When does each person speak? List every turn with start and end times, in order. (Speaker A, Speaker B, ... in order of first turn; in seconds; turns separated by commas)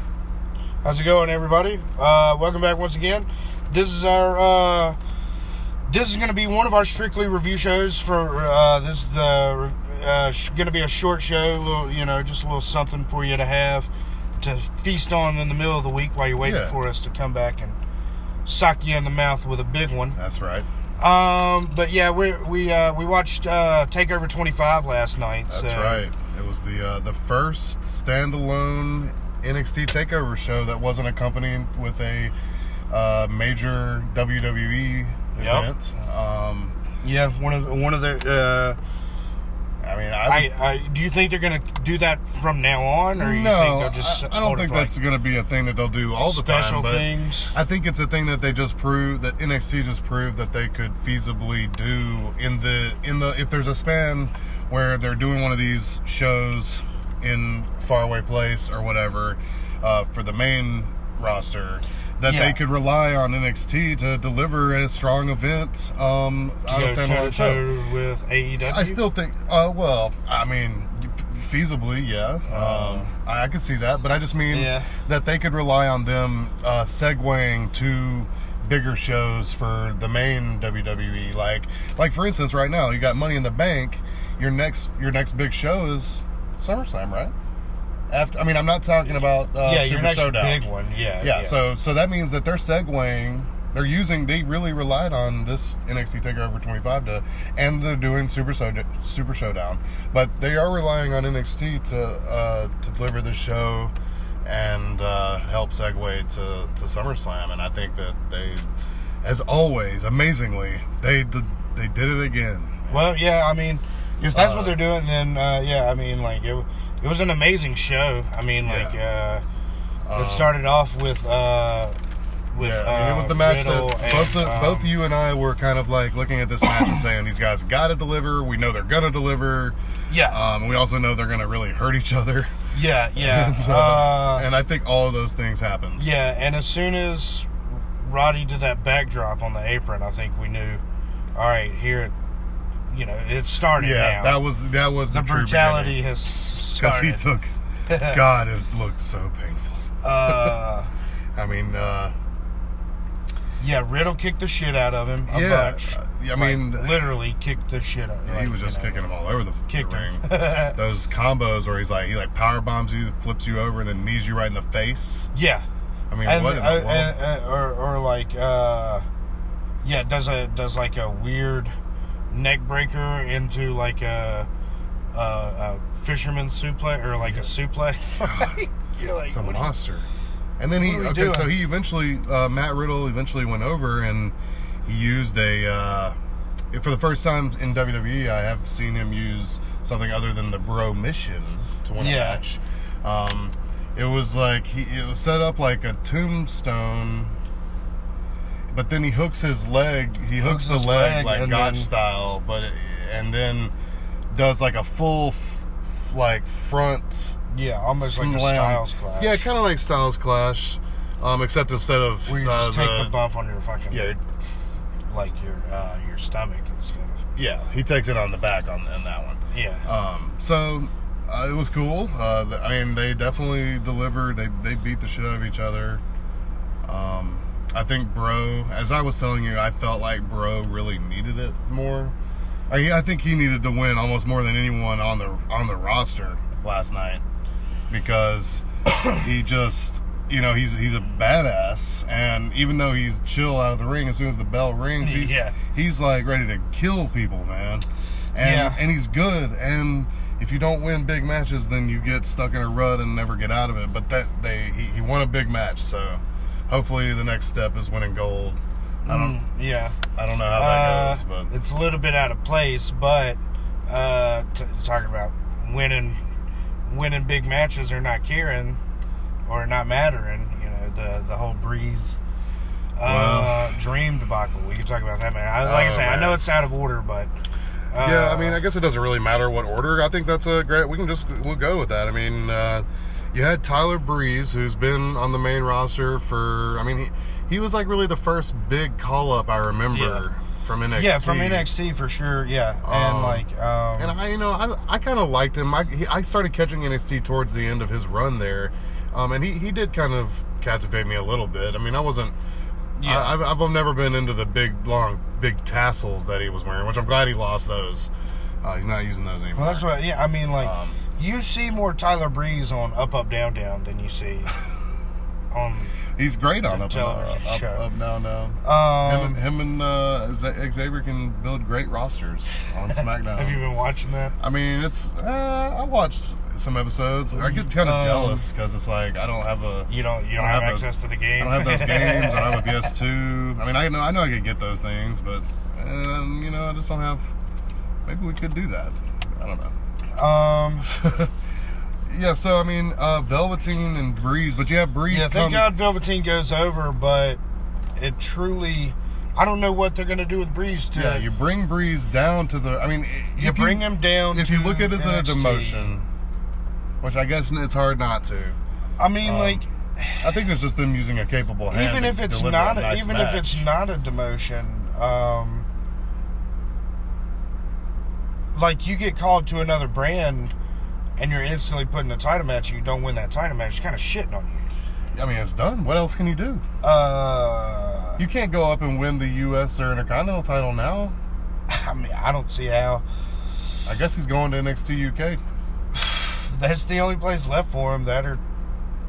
Speaker A: 0.8-5.0, Speaker A: 5.9-17.8, Speaker B: 16.4-16.8, Speaker A: 18.5-20.2, Speaker B: 20.2-20.7, Speaker A: 21.0-26.0, Speaker B: 25.5-32.3, Speaker B: 32.9-36.8, Speaker A: 35.4-35.7, Speaker A: 37.0-38.8, Speaker B: 39.8-40.5, Speaker A: 40.3-44.9, Speaker B: 43.2-67.7, Speaker A: 46.2-47.5, Speaker A: 62.2-62.6, Speaker A: 66.7-69.0, Speaker B: 68.6-87.3, Speaker A: 72.5-73.1, Speaker A: 74.5-74.9, Speaker B: 88.1-90.6, Speaker A: 89.6-91.6, Speaker B: 91.2-108.7, Speaker B: 109.2-113.1, Speaker A: 112.9-119.4, Speaker B: 114.3-114.8, Speaker B: 118.6-119.0, Speaker B: 120.1-120.6, Speaker A: 120.1-122.0, Speaker A: 122.5-124.9, Speaker B: 122.6-129.8, Speaker A: 130.1-130.4, Speaker B: 130.3-132.5, Speaker A: 132.7-134.5, Speaker B: 133.2-136.1, Speaker A: 136.0-140.8, Speaker A: 141.4-142.1, Speaker A: 142.9-144.4, Speaker B: 143.8-146.0, Speaker A: 145.1-147.2, Speaker B: 146.8-150.6, Speaker A: 147.9-148.2, Speaker A: 150.0-150.9, Speaker B: 151.4-152.2, Speaker A: 153.6-159.1, Speaker B: 155.3-157.1, Speaker B: 158.2-165.3, Speaker A: 159.7-160.8, Speaker A: 165.3-165.7, Speaker B: 166.1-167.2, Speaker A: 166.2-169.1, Speaker A: 169.8-171.7, Speaker A: 172.3-174.5, Speaker A: 175.1-179.7, Speaker B: 178.2-178.6, Speaker B: 179.3-180.1, Speaker B: 180.6-186.2, Speaker A: 180.8-181.5, Speaker B: 186.7-197.4, Speaker A: 192.0-192.4, Speaker B: 198.7-203.7, Speaker A: 200.4-201.9, Speaker B: 204.3-207.4, Speaker A: 207.5-209.5, Speaker B: 208.0-213.2, Speaker A: 212.3-214.2, Speaker B: 213.9-214.2, Speaker A: 215.1-217.2, Speaker B: 217.3-226.0, Speaker A: 219.5-219.9, Speaker B: 226.8-232.1, Speaker B: 232.7-237.2, Speaker B: 237.9-259.4, Speaker A: 245.0-245.6, Speaker A: 248.4-248.8, Speaker A: 259.0-260.0, Speaker B: 260.2-261.5, Speaker A: 260.5-266.2, Speaker A: 266.9-268.8, Speaker A: 269.5-272.2, Speaker A: 273.0-277.3, Speaker B: 273.0-273.7, Speaker B: 275.6-276.4, Speaker A: 277.9-278.6, Speaker B: 278.0-291.7, Speaker A: 289.9-290.2, Speaker A: 291.0-294.1, Speaker B: 292.8-293.5, Speaker B: 294.0-302.4, Speaker A: 303.0-303.4, Speaker B: 303.0-309.9, Speaker A: 309.6-314.5, Speaker B: 310.6-311.0, Speaker A: 315.5-316.0, Speaker B: 316.2-323.6, Speaker A: 316.6-317.8, Speaker A: 318.6-319.4, Speaker A: 323.3-324.4, Speaker B: 324.4-337.3, Speaker A: 327.4-328.5, Speaker A: 329.9-332.9, Speaker B: 338.1-339.7, Speaker A: 340.2-340.9, Speaker B: 340.9-341.3, Speaker B: 342.1-345.7, Speaker A: 345.1-347.4, Speaker A: 348.0-351.3, Speaker B: 350.9-356.1, Speaker A: 353.4-356.0, Speaker B: 357.0-358.6, Speaker A: 359.0-360.3, Speaker B: 359.2-359.6, Speaker B: 360.2-363.7, Speaker A: 361.7-365.7, Speaker A: 368.5-370.5, Speaker A: 371.2-374.7, Speaker B: 375.1-376.6, Speaker A: 376.8-378.2, Speaker B: 378.2-381.2, Speaker A: 381.7-383.0, Speaker B: 383.9-385.4, Speaker A: 385.9-388.4